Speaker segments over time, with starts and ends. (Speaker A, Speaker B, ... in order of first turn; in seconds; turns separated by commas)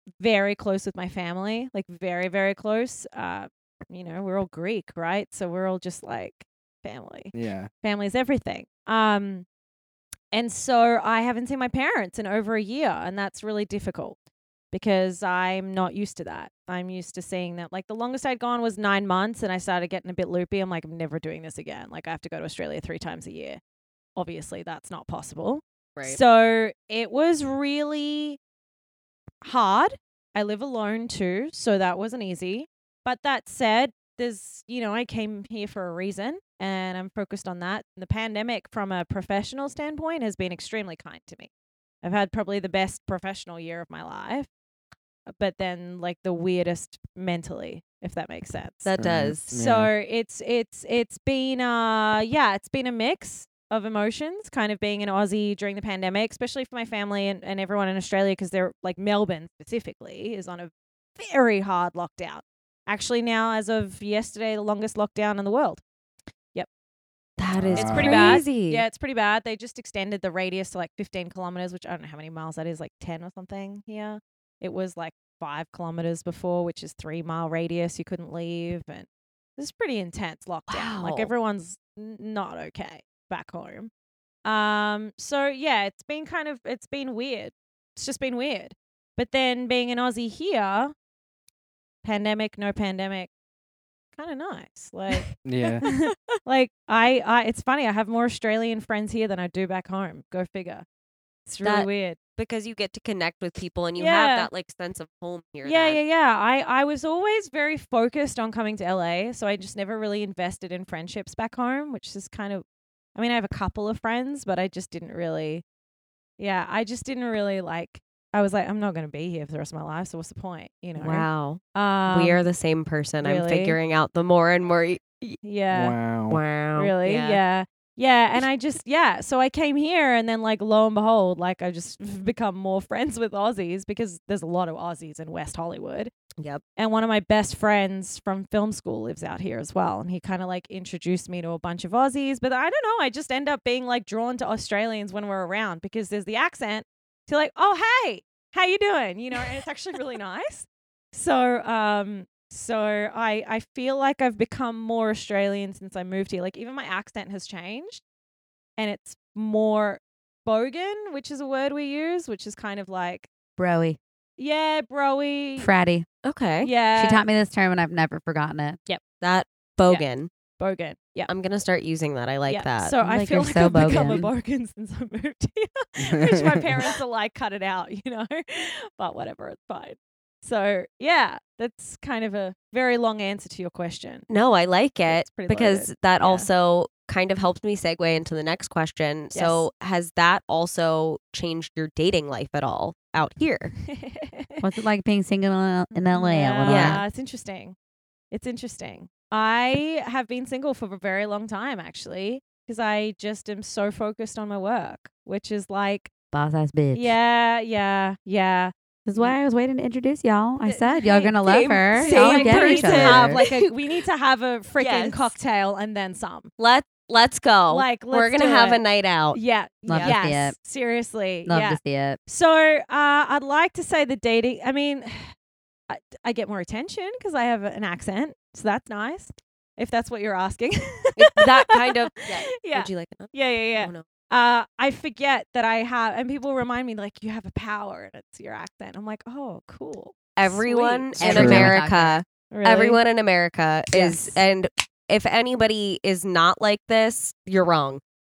Speaker A: 0.2-9.4, Speaker B: 7.3-7.7, Speaker A: 10.3-14.2, Speaker A: 14.7-23.6, Speaker A: 24.1-28.4, Speaker A: 29.4-41.5, Speaker A: 42.0-44.5, Speaker A: 45.3-49.0, Speaker C: 48.8-49.5, Speaker B: 49.0-49.9, Speaker A: 49.5-65.8, Speaker C: 67.4-68.8, Speaker B: 67.5-68.4, Speaker A: 67.7-83.9, Speaker C: 80.7-81.3, Speaker A: 84.4-90.9, Speaker A: 92.0-93.3, Speaker A: 94.1-95.3, Speaker B: 95.4-95.8, Speaker A: 95.8-100.8, Speaker A: 101.5-102.2, Speaker C: 101.6-106.0, Speaker A: 104.0-104.5, Speaker A: 105.6-115.6, Speaker A: 116.4-122.4, Speaker C: 121.0-125.4, Speaker A: 123.2-123.8, Speaker A: 125.4-125.9, Speaker B: 125.7-126.4, Speaker C: 126.3-127.4, Speaker A: 126.8-136.1, Speaker A: 136.8-158.0, Speaker A: 158.8-163.3, Speaker D: 163.6-164.0, Speaker A: 164.4-165.7, Speaker D: 165.6-166.1, Speaker C: 166.2-166.7, Speaker A: 166.6-167.2, Speaker D: 166.9-168.8, Speaker C: 169.2-170.3, Speaker A: 170.6-171.3, Speaker C: 171.3-172.9, Speaker A: 172.5-184.3, Speaker D: 173.0-174.3, Speaker C: 173.8-174.2, Speaker B: 176.1-176.6, Speaker C: 184.3-193.7, Speaker A: 185.1-186.5, Speaker A: 189.3-189.7, Speaker A: 193.9-194.6, Speaker D: 194.6-197.0, Speaker A: 195.9-197.8, Speaker C: 196.6-197.0, Speaker A: 198.3-206.1, Speaker D: 206.3-207.2, Speaker A: 206.9-209.3, Speaker D: 209.1-213.4, Speaker A: 210.6-216.5, Speaker C: 211.5-213.7, Speaker C: 214.8-215.3, Speaker C: 216.6-220.2, Speaker A: 217.7-225.3, Speaker D: 219.9-220.6, Speaker D: 221.4-222.2, Speaker A: 225.9-241.6, Speaker C: 231.2-234.1, Speaker C: 240.3-248.0, Speaker D: 241.2-242.2, Speaker B: 241.2-241.7, Speaker A: 242.5-243.0, Speaker A: 243.9-244.4